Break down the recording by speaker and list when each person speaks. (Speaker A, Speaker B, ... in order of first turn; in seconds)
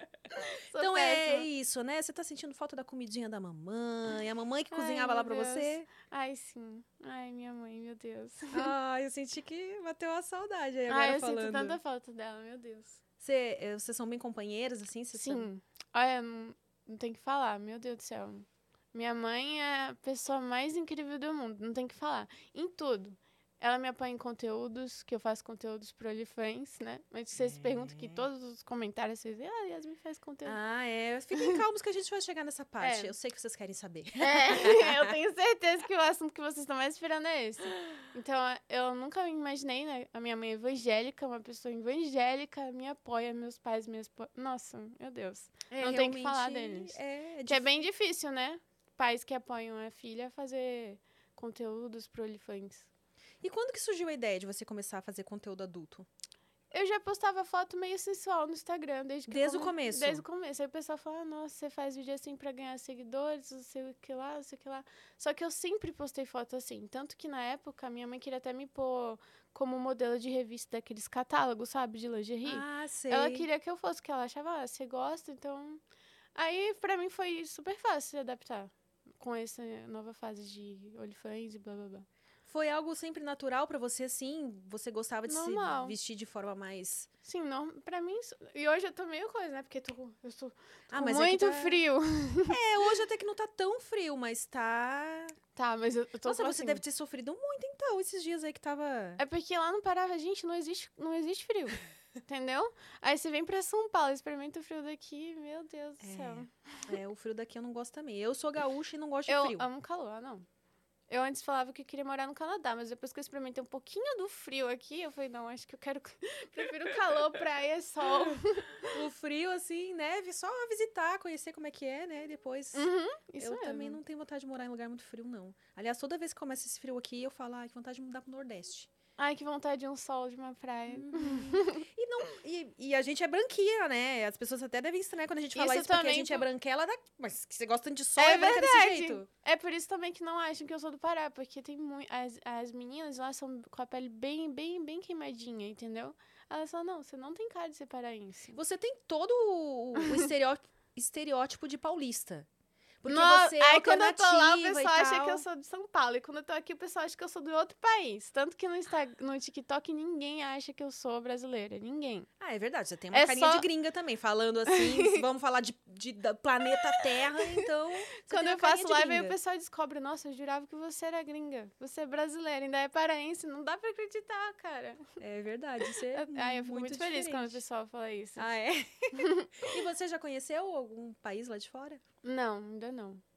Speaker A: 0.3-1.5, 4.7-8.7, 10.9-13.0, 15.1-30.6, 32.8-33.1, 34.2-52.9, 56.7-75.8, 76.3-82.1, 85.3-86.0, 87.2-92.6, 95.5-96.8, 99.2-106.9, 109.3-110.5, 111.1-119.0, 122.7-124.0, 129.2-131.8, 135.5-136.5, 138.2-148.6, 153.1-162.3, 163.1-163.7, 164.7-165.2, 167.3-167.6, 168.2-175.1, 176.1-178.4, 179.1-179.7, 182.2-183.2
Speaker B: 0.8-5.9, 8.5-11.8, 13.2-15.5, 27.4-28.2, 30.4-35.1, 45.7-47.7, 53.4-56.0, 59.3-60.2, 72.4-73.5, 82.5-87.1, 90.9-91.8, 92.5-95.3, 96.2-99.2, 106.0-109.7, 118.9-122.9, 123.4-128.9, 130.9-139.3, 148.5-152.5, 153.0-155.4, 162.4-169.3, 175.2-177.6, 178.4-182.0